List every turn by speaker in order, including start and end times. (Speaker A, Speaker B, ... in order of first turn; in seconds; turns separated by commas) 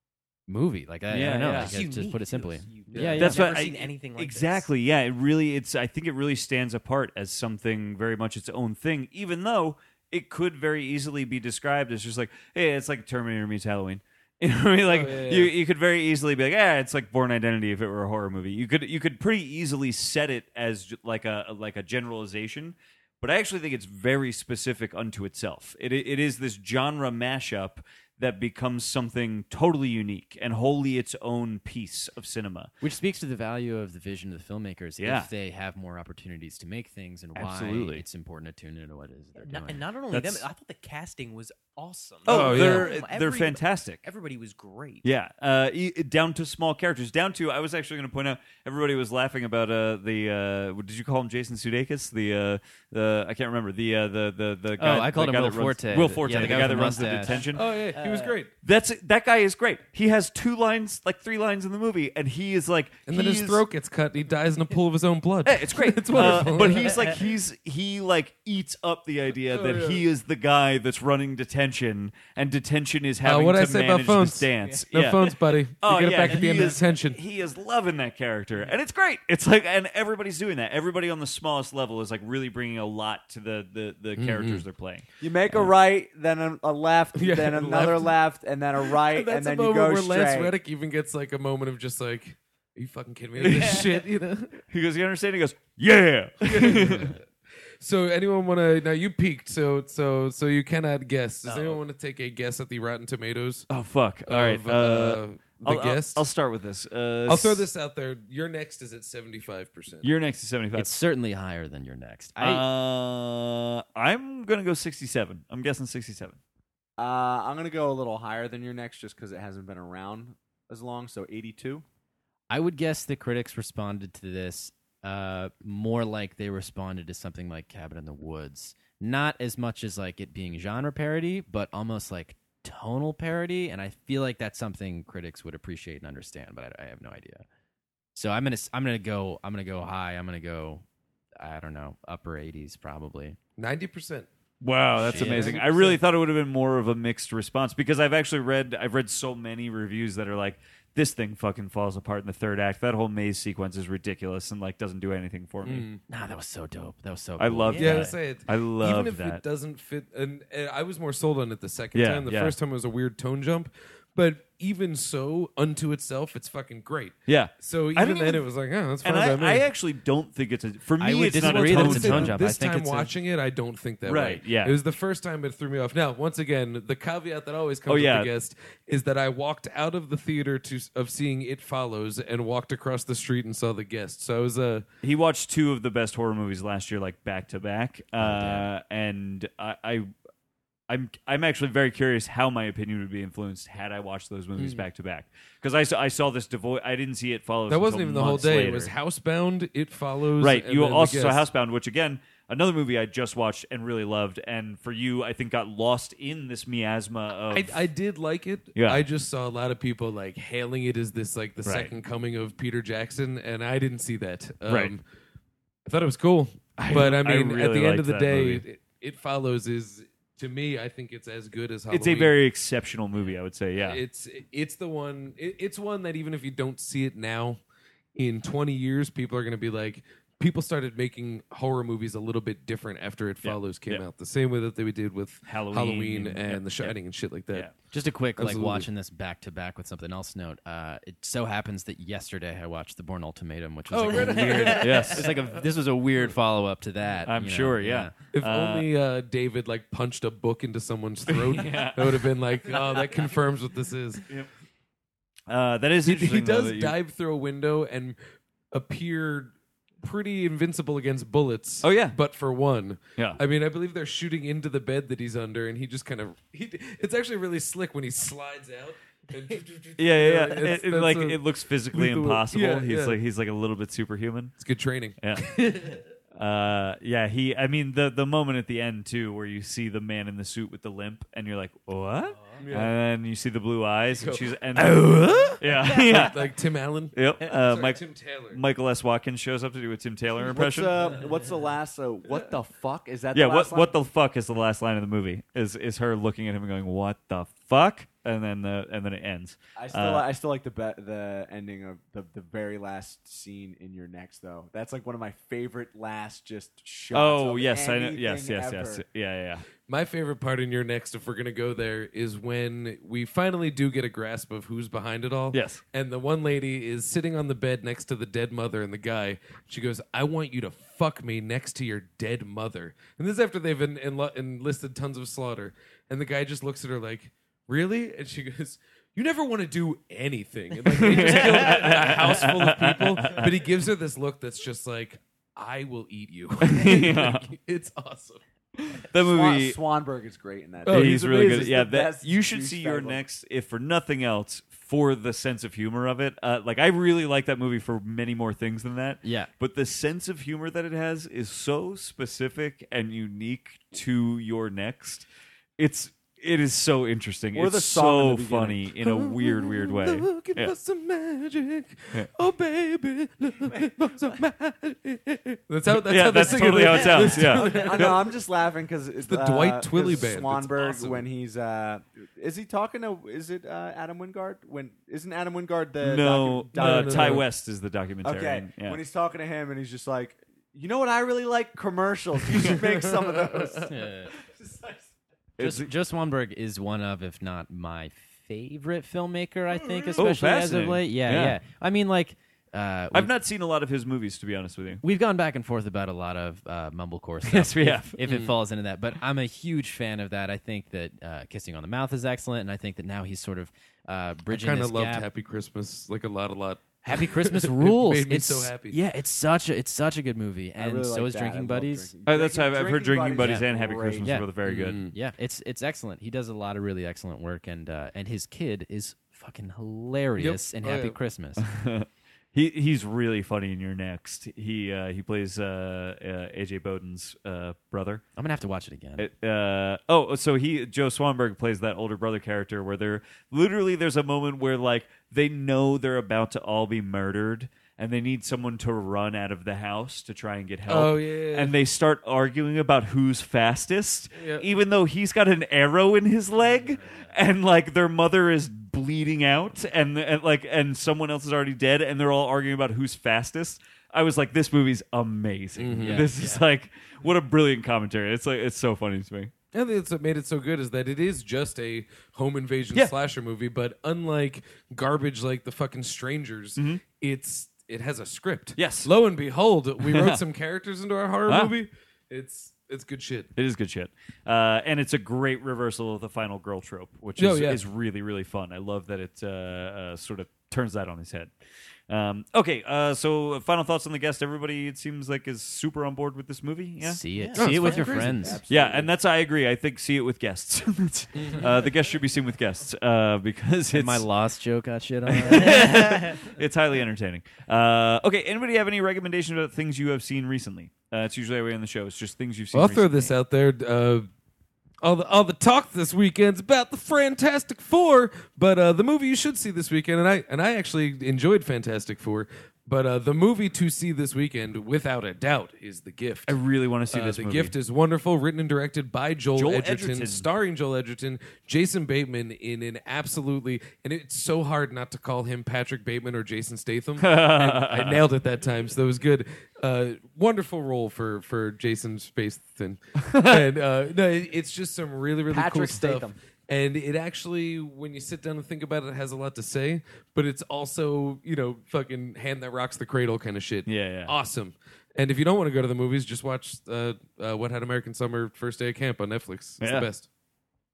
Speaker A: 0.5-3.4, Speaker B: 1.1-1.8, Speaker C: 1.4-4.7, Speaker D: 2.9-3.2, Speaker B: 3.2-32.7, Speaker D: 14.8-15.5, Speaker A: 32.8-39.8, Speaker B: 35.0-35.3, Speaker B: 37.4-38.0, Speaker C: 39.4-45.1, Speaker B: 40.1-40.5, Speaker B: 42.3-44.0, Speaker D: 42.3-42.9, Speaker B: 45.0-57.7, Speaker A: 54.8-57.5, Speaker D: 57.3-58.5, Speaker C: 57.9-58.4, Speaker B: 58.6-63.6, Speaker D: 63.1-67.1, Speaker B: 65.5-85.7, Speaker C: 66.2-67.2, Speaker D: 69.5-70.0, Speaker D: 73.2-77.2, Speaker C: 76.3-76.8, Speaker D: 84.2-84.6, Speaker E: 85.2-90.5, Speaker D: 87.2-88.1, Speaker D: 88.8-94.6, Speaker B: 93.4-93.9, Speaker B: 94.7-97.2, Speaker D: 96.4-103.7, Speaker C: 101.5-101.8, Speaker B: 103.7-107.7, Speaker D: 104.3-106.3, Speaker D: 107.3-110.1, Speaker B: 110.0-110.9, Speaker A: 110.7-112.7, Speaker B: 112.4-116.4, Speaker E: 117.0-121.8, Speaker A: 122.5-137.4, Speaker A: 138.2-140.8, Speaker A: 141.4-143.4, Speaker D: 143.6-144.3, Speaker B: 144.6-155.9, Speaker D: 145.0-146.0, Speaker A: 145.0-145.6, Speaker D: 155.6-156.0, Speaker A: 156.1-158.2, Speaker B: 157.4-159.4, Speaker D: 157.8-169.7, Speaker B: 161.9-162.6, Speaker B: 167.3-168.4, Speaker B: 169.0-172.4, Speaker A: 171.0-173.1, Speaker D: 171.3-184.9, Speaker B: 174.1-174.8, Speaker B: 177.9-178.3, Speaker B: 185.0-190.1, Speaker A: 188.2-188.7, Speaker B: 190.9-198.9, Speaker D: 194.6-194.8, Speaker D: 197.7-201.4, Speaker B: 200.4-207.9, Speaker D: 207.5-215.0, Speaker B: 208.7-209.0, Speaker B: 211.6-211.9, Speaker B: 214.7-214.9, Speaker D: 215.9-222.4, Speaker B: 216.8-218.6, Speaker B: 221.9-224.0, Speaker D: 223.8-227.6, Speaker D: 228.2-237.7, Speaker B: 233.4-234.1, Speaker B: 235.5-236.9, Speaker A: 237.9-248.1, Speaker D: 238.4-238.9, Speaker D: 243.9-245.2, Speaker C: 244.0-245.1, Speaker B: 244.7-245.3, Speaker B: 247.2-248.9, Speaker D: 248.3-254.3, Speaker B: 251.3-252.3, Speaker B: 255.5-256.9, Speaker D: 256.0-258.2, Speaker D: 258.7-273.2, Speaker B: 261.8-262.2, Speaker B: 270.0-274.6, Speaker D: 274.6-276.0, Speaker B: 275.2-275.6, Speaker B: 276.4-286.5, Speaker D: 282.6-282.9, Speaker D: 284.1-288.6, Speaker C: 286.0-286.4, Speaker B: 287.1-291.2, Speaker E: 290.4-293.9, Speaker B: 293.3-300.3, Speaker E: 299.8-309.0, Speaker B: 307.1-309.6, Speaker D: 309.9-338.4, Speaker B: 315.5-315.8, Speaker B: 330.9-333.6, Speaker B: 336.6-337.5, Speaker B: 338.8-339.8, Speaker E: 339.2-343.2, Speaker D: 340.9-341.6, Speaker B: 340.9-355.3, Speaker A: 349.2-349.5, Speaker B: 355.8-360.7, Speaker E: 357.6-358.9, Speaker D: 359.0-368.2, Speaker B: 365.9-368.2, Speaker C: 366.5-367.8, Speaker E: 367.6-377.4, Speaker D: 369.2-371.2, Speaker B: 376.0-379.0, Speaker D: 376.7-377.4, Speaker E: 378.2-385.1, Speaker D: 382.7-383.9, Speaker A: 383.9-384.3, Speaker B: 385.6-385.9, Speaker A: 385.6-393.3, Speaker B: 390.2-391.6, Speaker B: 393.1-395.0, Speaker A: 395.0-405.3, Speaker B: 397.4-398.2, Speaker D: 398.2-398.6, Speaker D: 404.5-409.0, Speaker A: 407.0-412.1, Speaker E: 410.8-414.4, Speaker B: 412.3-415.0, Speaker A: 414.2-421.6, Speaker D: 414.6-415.1, Speaker D: 420.4-421.2, Speaker B: 421.6-428.2, Speaker A: 428.4-429.3, Speaker B: 429.2-459.5, Speaker D: 440.9-441.7, Speaker D: 444.4-444.6, Speaker D: 455.8-456.3, Speaker A: 455.9-456.6, Speaker D: 459.7-473.5, Speaker B: 468.8-469.1, Speaker B: 470.0-470.4, Speaker B: 471.5-471.7, Speaker B: 473.6-481.5, Speaker D: 477.4-477.8, Speaker B: 482.1-487.2, Speaker A: 487.0-488.6, Speaker C: 487.4-488.1, Speaker D: 487.6-488.6, Speaker E: 488.3-489.1, Speaker B: 488.7-494.2, Speaker D: 491.4-491.7, Speaker A: 493.9-496.0, Speaker B: 495.3-503.3, Speaker C: 495.6-496.3, Speaker D: 502.7-504.3, Speaker D: 505.0-516.6, Speaker B: 516.5-517.7, Speaker D: 517.1-550.3, Speaker B: 519.6-520.5, Speaker B: 527.2-528.2, Speaker B: 533.3-533.6, Speaker E: 535.5-536.4, Speaker B: 543.9-544.3, Speaker B: 549.8-550.1